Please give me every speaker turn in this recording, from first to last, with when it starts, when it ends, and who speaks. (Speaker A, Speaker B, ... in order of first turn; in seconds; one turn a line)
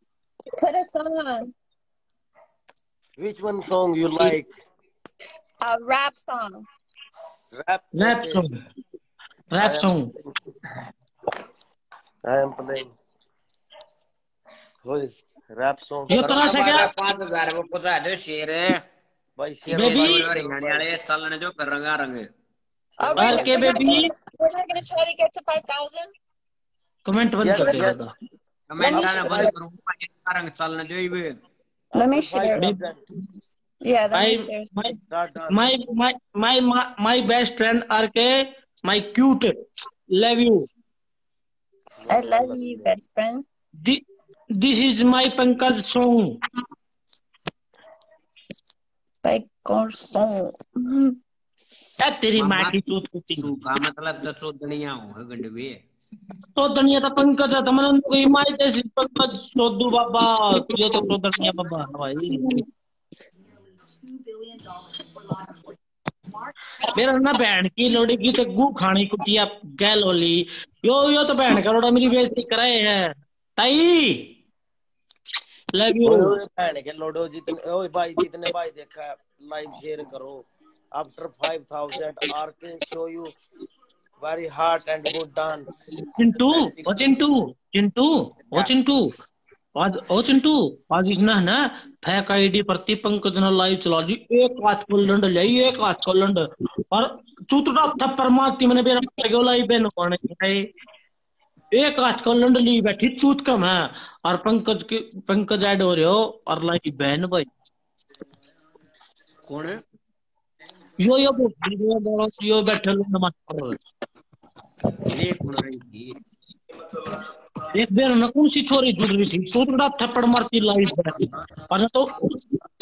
Speaker A: 0.6-1.5
Speaker B: 3.2-4.5
Speaker A: 5.6-6.7
Speaker B: 7.5-8.4
Speaker C: 8.0-8.6
Speaker C: 9.5-10.1
Speaker B: 9.6-10.3
Speaker B: 12.2-12.9
Speaker B: 14.8-16.1
Speaker C: 16.1-16.9
Speaker D: 16.1-18.8
Speaker B: 19.4-20.9
Speaker D: 19.6-22.3
Speaker C: 19.7-20.2
Speaker B: 23.0-24.0
Speaker A: 23.0-26.1
Speaker C: 23.2-24.1
Speaker C: 27.1-28.1
Speaker B: 27.4-28.0
Speaker A: 27.5-27.8
Speaker D: 28.7-31.4
Speaker A: 28.8-29.5
Speaker B: 28.8-29.5
Speaker B: 31.9-33.1
Speaker A: 31.9-32.7
Speaker A: 33.8-34.7
Speaker C: 34.1-35.0
Speaker B: 35.1-35.7
Speaker C: 35.5-39.5
Speaker C: 40.1-40.6
Speaker B: 42.0-42.9
Speaker A: 42.1-43.4
Speaker C: 44.6-46.4
Speaker A: 49.2-51.2
Speaker C: 52.0-53.5
Speaker D: 52.4-55.8
Speaker C: 56.5-62.6
Speaker A: 60.6-61.0
Speaker A: 62.3-62.6
Speaker C: 66.9-74.3
Speaker C: 75.7-76.4
Speaker B: 76.0-83.3
Speaker B: 84.2-85.7
Speaker C: 86.2-89.1
Speaker B: 86.5-87.2
Speaker C: 89.8-100.7
Speaker C: 101.7-107.5
Speaker D: 109.5-109.8
Speaker C: 111.0-113.8
Speaker D: 115.0-116.1
Speaker C: 117.7-122.2